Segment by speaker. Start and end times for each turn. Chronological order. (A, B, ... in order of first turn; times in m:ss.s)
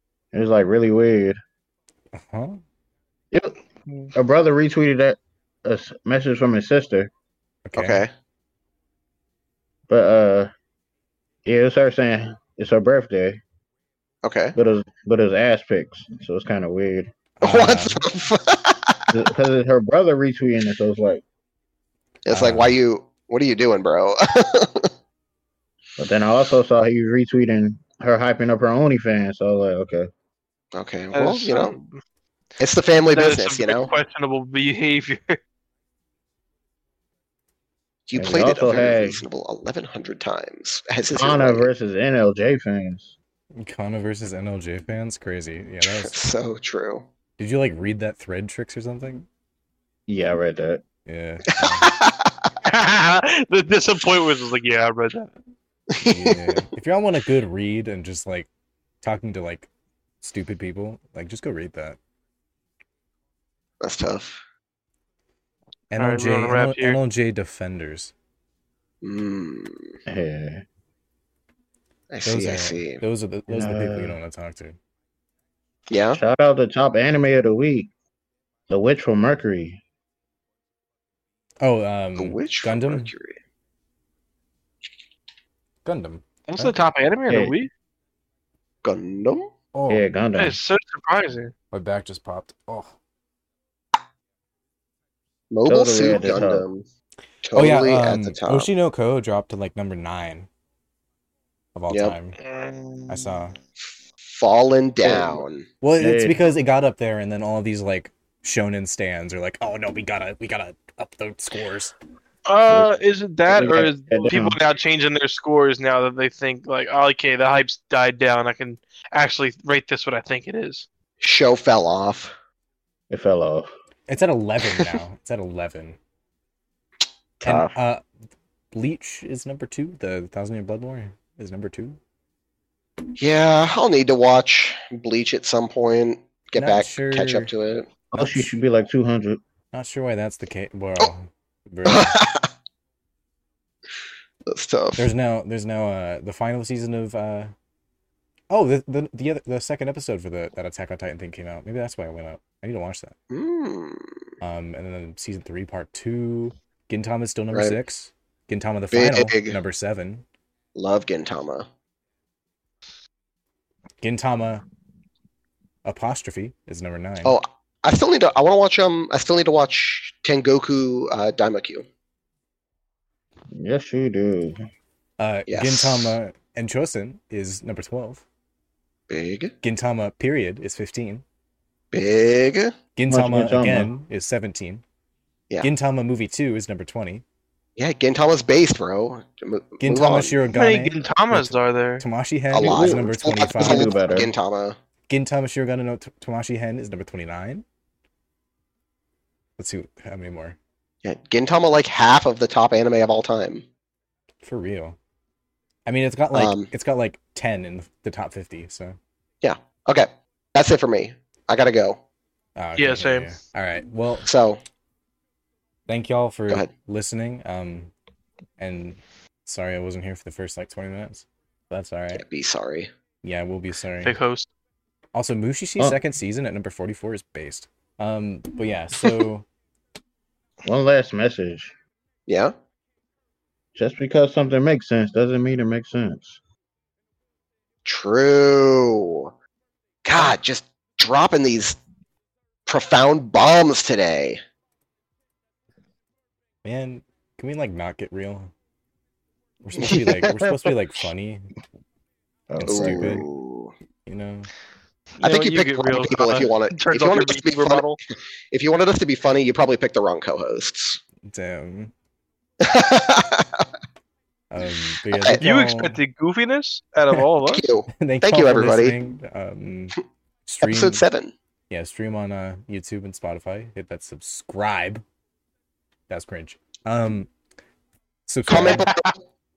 0:00.3-0:01.4 A
0:02.1-0:02.6 B
0:03.3-0:03.6 A
0:04.1-0:07.1 A
0:07.6-0:08.0 B
0:07.8-0:08.1 C
0:09.9-0:10.5 A
0:11.4-0:13.4 A
0:14.2-0:14.6 C
0:14.6-0:17.1 A
0:17.4-0:18.0 B
0:17.4-0:19.0 C
0:19.1-0:21.2 A
0:22.2-0:24.9 C
0:22.3-0:22.7 B
0:26.0-0:30.1 A
0:30.7-0:31.7 C
0:31.1-0:32.0 D
0:32.6-0:33.9 C
0:33.1-0:35.4 D
0:38.1-0:41.7 C
0:38.2-0:39.2 A
0:41.1-0:43.1 A
0:43.6-0:46.2 B
0:45.8-0:47.1 C
0:47.4-0:49.2 B
0:50.1-0:50.8 A
0:51.0-0:51.9 B
0:51.5-0:52.5 C
0:52.6-0:55.3 D
0:55.9-0:56.6 C
0:56.0-0:58.5 B
0:59.0-0:59.7 B
1:00.2-1:02.0 B
1:03.8-1:04.4 C
1:05.9-1:08.1 B
1:06.0-1:07.0 D
1:09.0-1:10.0 C
1:10.0-1:10.6 A
1:12.1-1:13.0 C
1:12.2-1:14.8 B
1:13.5-1:14.2 A
1:15.9-1:16.2 C
1:16.1-1:17.9 A
1:18.7-1:19.8 A
1:21.6-1:23.1 B
1:22.2-1:23.4 C
1:25.8-1:26.8 B
1:26.5-1:27.7 D
1:27.3-1:27.6 A
1:28.8-1:29.5 C
1:29.7-1:30.1 B
1:29.9-1:30.6 A
1:30.3-1:31.5 D
1:31.7-1:32.9 B
1:35.5-1:36.8 C
1:35.6-1:36.6 A
1:37.4-1:38.7 C
1:37.5-1:40.5 B
1:41.7-1:42.4 B
1:42.4-1:43.4 D
1:43.1-1:43.6 B
1:44.3-1:45.6 C
1:45.0-1:45.4 A
1:45.8-1:51.9 B
1:46.0-1:46.4 A
1:52.4-2:00.9 D
1:52.7-1:52.9 A
1:53.5-1:54.6 A
2:01.2-2:02.3 C
2:03.1-2:03.7 A
2:04.1-2:06.0 B
2:07.4-2:07.7 A
2:07.4-2:08.0 B
2:08.7-2:12.0 B
2:13.2-2:17.9 C
2:16.6-2:17.5 B
2:18.1-2:19.4 A
2:18.1-2:18.5 B
2:19.7-2:22.2 B
2:21.8-2:22.5 C
2:24.4-2:25.1 C
2:25.0-2:27.5 B
2:28.5-2:33.1 B
2:33.3-2:34.1 C
2:34.4-2:40.2 B
2:37.5-2:37.8 C
2:38.9-2:39.6 C
2:40.7-2:41.7 C
2:44.0-2:44.6 B
2:45.8-2:47.4 B
2:47.2-2:51.8 C
2:53.5-2:54.6 A
2:55.2-2:58.2 B
2:55.5-2:56.2 C
2:59.1-2:59.5 C
2:59.6-3:01.2 B
3:01.9-3:02.7 C
3:03.0-3:04.8 B
3:03.1-3:03.9 A
3:05.6-3:07.2 B
3:07.8-3:10.4 C
3:09.8-3:14.2 B
3:10.5-3:12.0 D
3:12.5-3:14.8 C
3:12.6-3:14.3 A
3:15.1-3:17.6 B
3:19.6-3:20.6 B
3:21.0-3:23.6 C
3:24.4-3:25.0 B
3:25.8-3:29.0 B
3:26.3-3:26.7 C
3:29.4-3:32.0 C
3:32.6-3:34.3 B
3:32.8-3:33.4 D
3:34.2-3:34.6 C
3:35.9-3:37.9 B
3:38.6-3:42.2 B
3:42.1-3:42.9 C
3:43.2-3:44.1 B
3:44.0-3:44.5 D
3:45.1-3:49.4 B
3:50.6-3:51.7 A
3:52.3-3:52.5 C
3:53.7-3:56.4 A
3:57.8-3:59.3 C
4:00.0-4:01.8 C
4:02.6-4:04.4 C
4:06.6-4:08.5 B
4:09.6-4:11.5 B
4:09.8-4:10.7 C
4:12.5-4:13.2 A
4:12.6-4:13.3 B
4:12.6-4:13.7 C
4:14.0-4:14.5 B
4:15.2-4:18.0 D
4:15.2-4:17.8 C
4:18.5-4:21.0 C
4:21.2-4:21.9 B
4:22.6-4:23.6 C
4:24.5-4:26.0 B
4:25.1-4:25.4 C
4:25.4-4:27.6 D
4:27.4-4:29.0 C
4:28.0-4:30.0 B
4:30.5-4:31.0 B
4:30.6-4:31.3 C
4:31.7-4:35.0 B
4:36.1-4:37.3 B
4:38.3-4:38.9 B
4:38.5-4:39.1 C